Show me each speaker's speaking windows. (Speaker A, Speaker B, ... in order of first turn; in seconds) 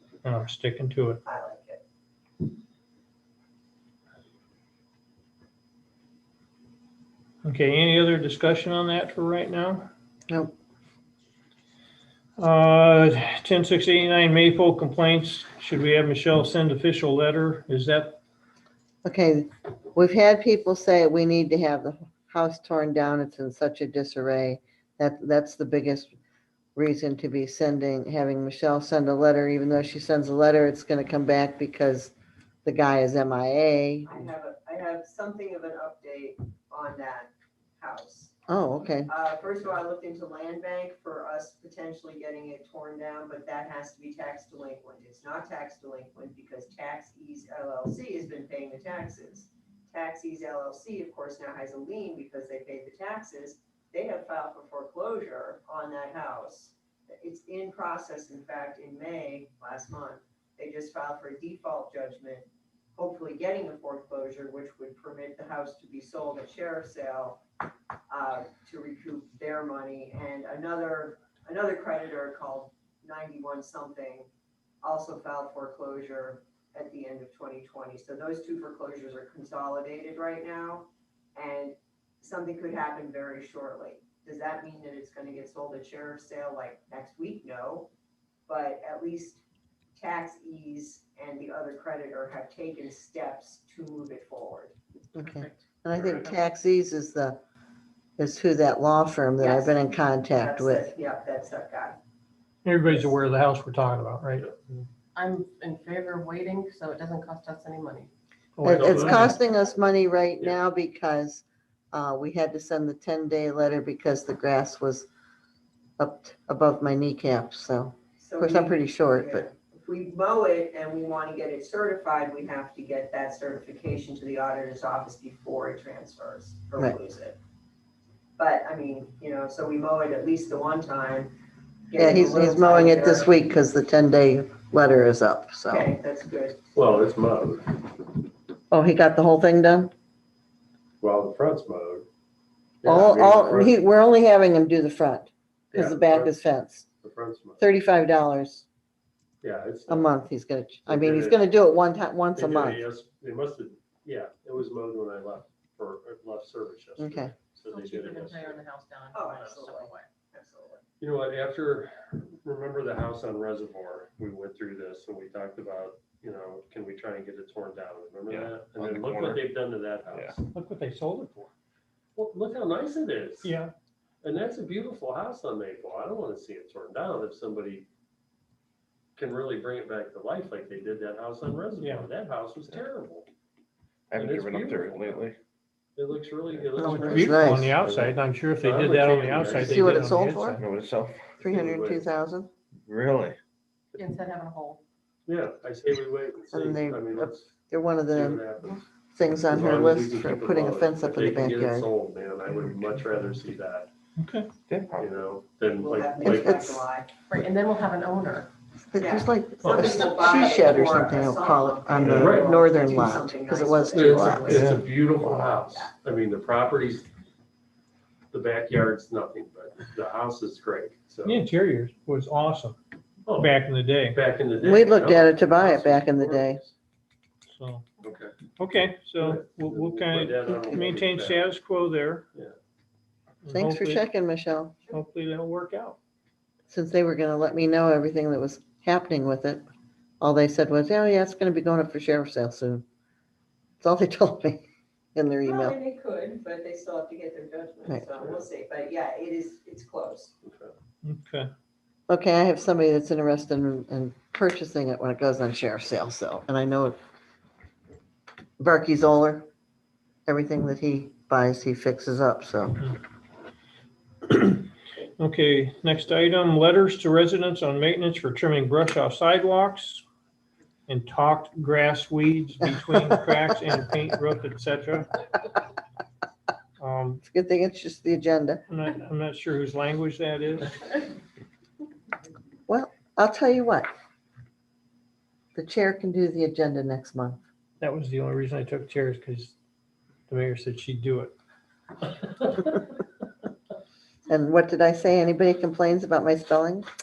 Speaker A: 0.2-1.2, 7.4-9.9, 12.4-18.2, 102.7-104.5, 108.6-109.2, 170.5-171.5, 173.4-173.7, 181.8-182.1, 186.8-190.6, 204.2-204.5, 221.2-222.8, 223.4-224.2, 227.5-227.9, 228.6-232.2, 233.4-234.0, 234.9-236.0, 251.0-251.5, 264.2-264.7, 265.2-270.0, 270.9-275.2, 276.8-277.2, 278.7-280.9, 287.8-289.5, 290.3-291.3
Speaker B: 1.2-1.8, 34.0-38.3, 39.0-67.4, 68.1-74.3, 74.8-87.9, 88.5-89.4, 90.0-94.8, 99.4-99.8, 100.3-102.0, 118.2-127.4, 128.4-131.3, 131.9-133.3, 135.7-136.7, 159.1-160.8, 205.8-207.1, 209.0-214.8, 215.7-215.9, 245.4-250.3
Speaker C: 19.0-26.1, 26.8-32.1, 32.6-34.3, 38.5-39.1, 95.2-97.4, 98.2-100.9, 108.6-115.1, 116.0-119.5, 132.0-135.9, 138.7-139.9, 142.8-146.9, 147.6-148.7, 149.9-152.8, 157.0-157.3, 186.8-187.8, 189.6-190.6, 191.4-192.5, 196.5-198.4, 199.2-201.9, 206.2-206.9, 208.9-214.7, 224.6-226.6, 233.5-234.8, 236.7-239.7, 240.2-242.8, 243.8-245.8, 252.1-257.0, 258.6-259.5, 260.3-262.9, 277.2-278.6, 282.7-283.9, 285.6-287.4, 294.3-296.9
Speaker D: 95.2-95.7, 105.2-108.1, 157.7-160.1, 193.9-194.8, 207.3-208.5
Speaker E: 108.6-109.3, 136.8-137.9, 141.0-142.1, 142.8-143.8, 145.7-146.3, 147.0-147.7, 149.4-150.1, 150.9-151.4, 152.4-158.6, 161.0-170.4, 172.2-173.5, 174.2-177.9, 179.2-183.3, 184.2-185.3, 186.0-190.2, 191.4-192.0, 195.3-197.5, 198.1-198.8, 199.5-203.9, 205.0-206.6, 209.6-209.9, 212.1-212.5, 213.9-217.1, 218.3-221.4, 223.2-223.6, 224.1-226.7, 228.0-228.4, 229.2-231.5, 250.4-250.7
Speaker F: 168.3-169.5, 184.1-185.4, 190.6-191.4, 192.8-193.4, 204.7-205.1, 212.0-212.2, 214.6-214.8